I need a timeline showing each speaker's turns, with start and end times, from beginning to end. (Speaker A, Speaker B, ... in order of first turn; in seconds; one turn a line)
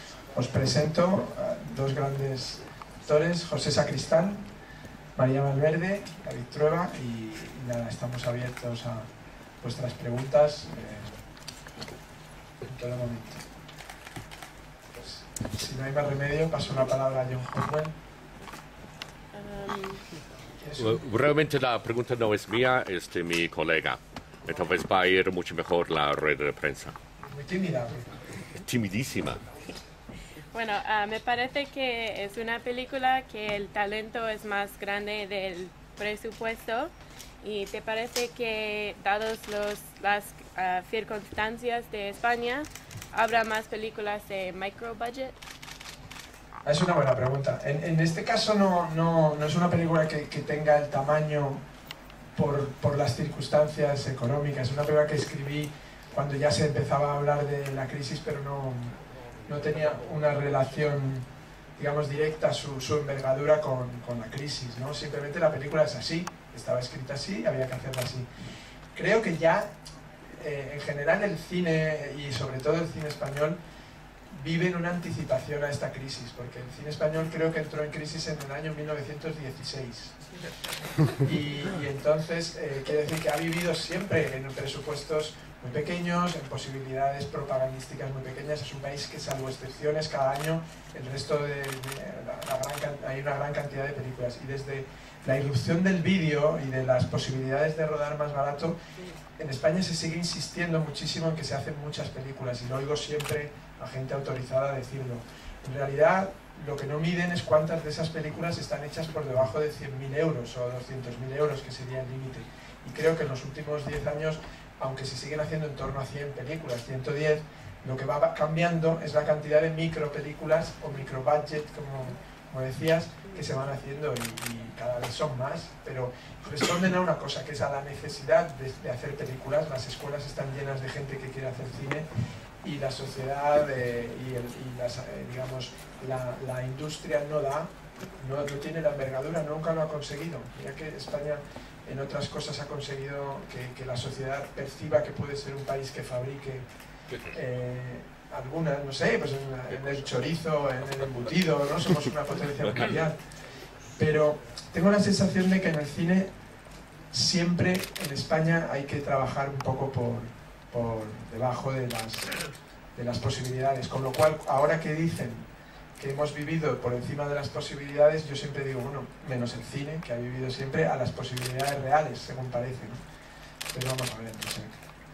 Speaker A: 0.3-4.4
Speaker A: 5.2-9.1
Speaker A: 9.6-11.2
Speaker A: 12.6-13.4
Speaker A: 14.9-17.9
Speaker B: 19.3-20.0
Speaker A: 20.6-21.0
Speaker C: 20.8-26.9
Speaker A: 27.2-28.1
Speaker C: 28.6-29.4
Speaker B: 30.5-36.9
Speaker B: 37.4-45.4
Speaker A: 46.6-51.6
Speaker A: 52.3-61.2
Speaker A: 61.8-68.3
Speaker A: 68.9-69.7
Speaker A: 70.3-73.6
Speaker A: 74.3-80.2
Speaker A: 81.1-98.8
Speaker A: 99.4-132.1
Speaker A: 132.6-146.7
Speaker A: 147.2-153.2
Speaker A: 154.0-156.3
Speaker A: 157.1-162.3
Speaker A: 162.9-165.5
Speaker A: 166.0-173.0
Speaker A: 173.7-174.8